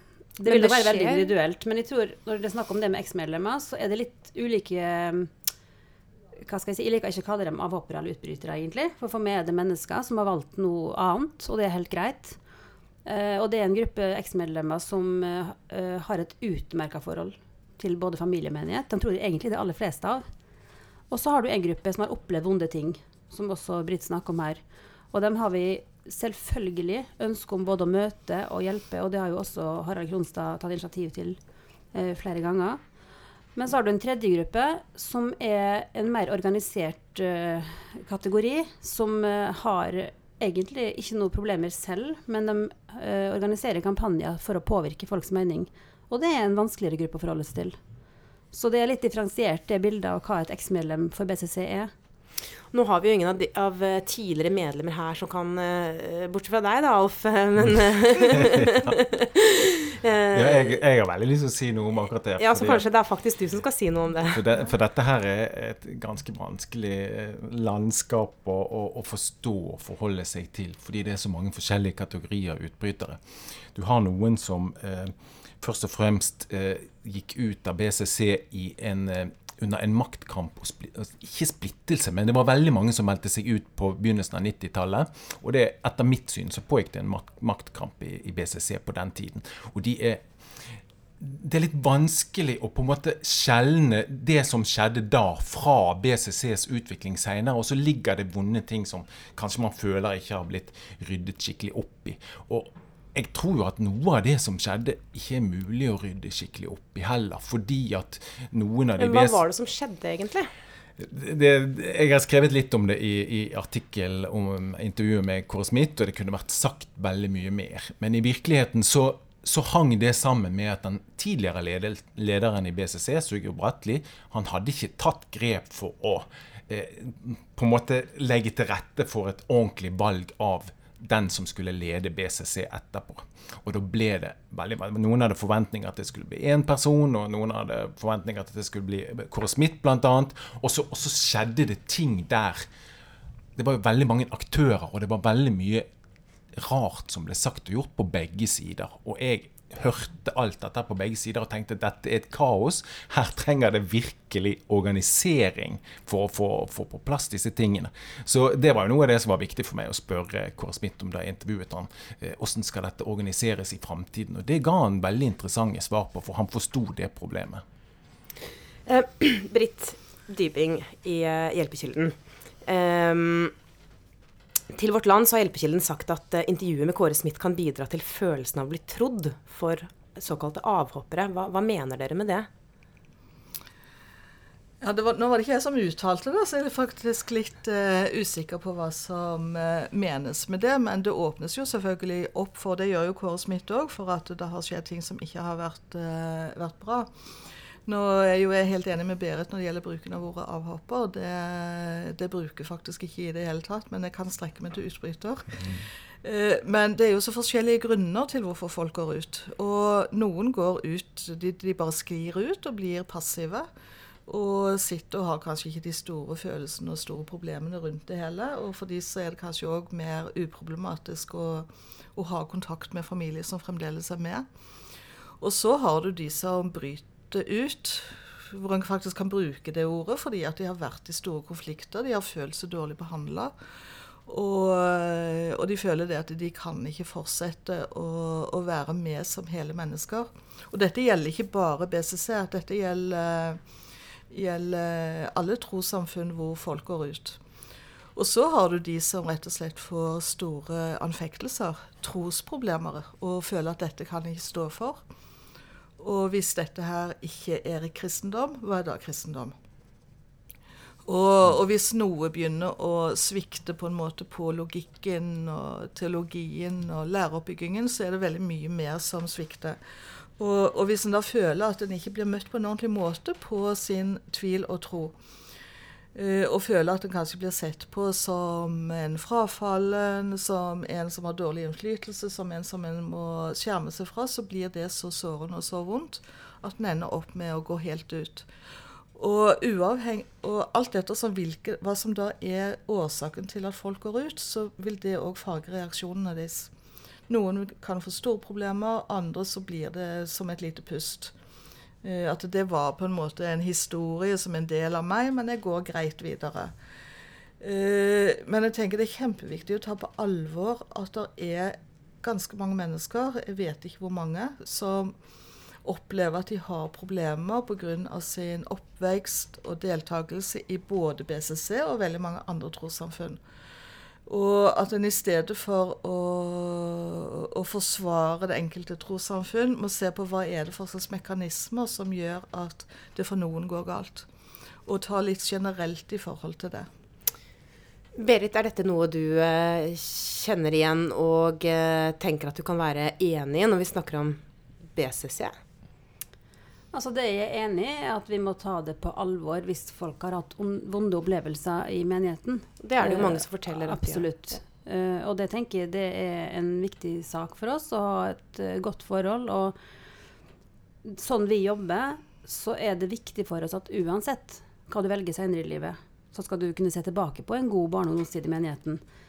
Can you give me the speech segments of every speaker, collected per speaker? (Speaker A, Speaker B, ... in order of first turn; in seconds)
Speaker A: 0.4-5.3, 6.5-12.4, 13.1-20.2, 21.1-24.6, 25.1-31.4, 31.9-32.8, 33.6-47.8, 48.5-51.9, 346.9-359.8, 361.1-369.0
Speaker B: 0.5-1.3, 52.7-60.8, 62.4-64.4, 109.0-110.5, 168.9-173.5, 174.7-182.5, 338.2-344.4, 345.0-345.6, 352.8-354.3
Speaker C: 58.3-58.8, 60.3-62.9, 64.3-73.2, 73.7-109.4, 111.0-142.7, 143.6-145.9, 146.5-167.6
Speaker D: 184.8-197.1, 197.9-205.6, 206.2-213.7, 214.3-224.5, 225.4-233.5, 234.3-243.6, 244.3-247.4, 248.2-255.0, 256.0-259.6, 261.1-269.8, 270.4-275.1, 276.1-288.5, 289.1-296.7, 297.3-301.3, 302.0-306.7, 307.6-315.1, 315.8-323.4, 324.3-334.3, 334.9-336.9